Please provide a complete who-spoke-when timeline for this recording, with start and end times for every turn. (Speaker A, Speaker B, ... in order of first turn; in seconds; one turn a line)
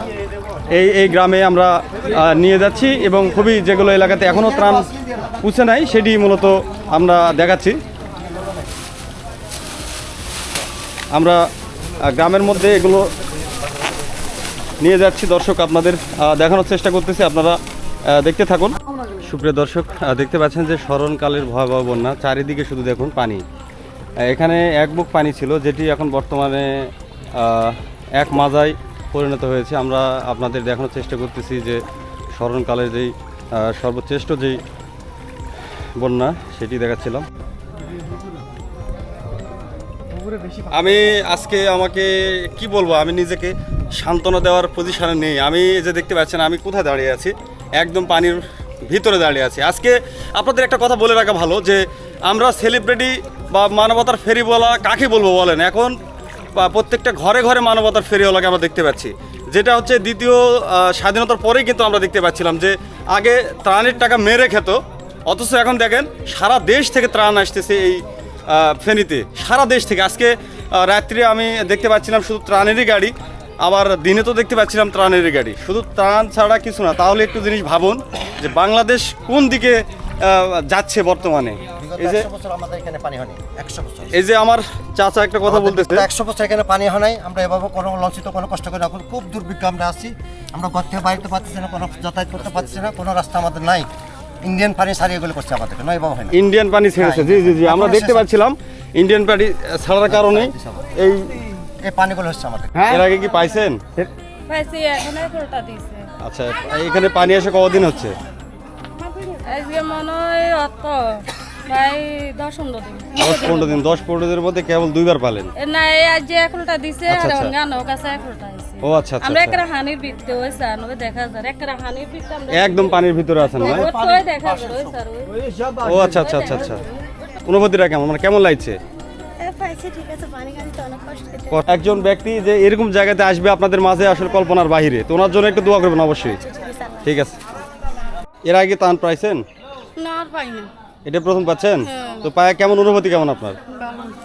Speaker A: 0.7-4.9
Speaker A: 5.4-7.8
Speaker A: 11.1-11.4
Speaker A: 12.0-13.1
Speaker A: 14.8-17.6
Speaker A: 18.1-23.4
Speaker A: 24.2-31.8
Speaker A: 32.3-34.6
Speaker A: 36.0-37.2
Speaker A: 40.7-55.9
Speaker A: 56.5-82.3
Speaker B: 81.8-84.2
Speaker A: 84.1-86.1
Speaker B: 85.4-93.9
Speaker B: 94.4-96.3
Speaker A: 96.3-101.4
Speaker B: 97.0-98.3
Speaker B: 100.1-100.9
Speaker B: 101.8-103.0
Speaker A: 102.8-104.1
Speaker C: 104.5-106.1
Speaker A: 106.2-108.2
Speaker C: 109.0-113.8
Speaker A: 113.2-115.5
Speaker C: 115.6-126.9
Speaker A: 117.1-117.5
Speaker A: 118.8-119.6
Speaker A: 122.5-123.9
Speaker A: 125.8-126.8
Speaker A: 127.4-128.8
Speaker D: 129.4-131.6
Speaker A: 131.5-136.4
Speaker D: 136.4-137.1
Speaker A: 137.0-137.4
Speaker A: 138.4-139.4
Speaker C: 140.0-140.7
Speaker A: 141.0-143.6
Speaker C: 141.8-142.3
Speaker C: 143.7-144.2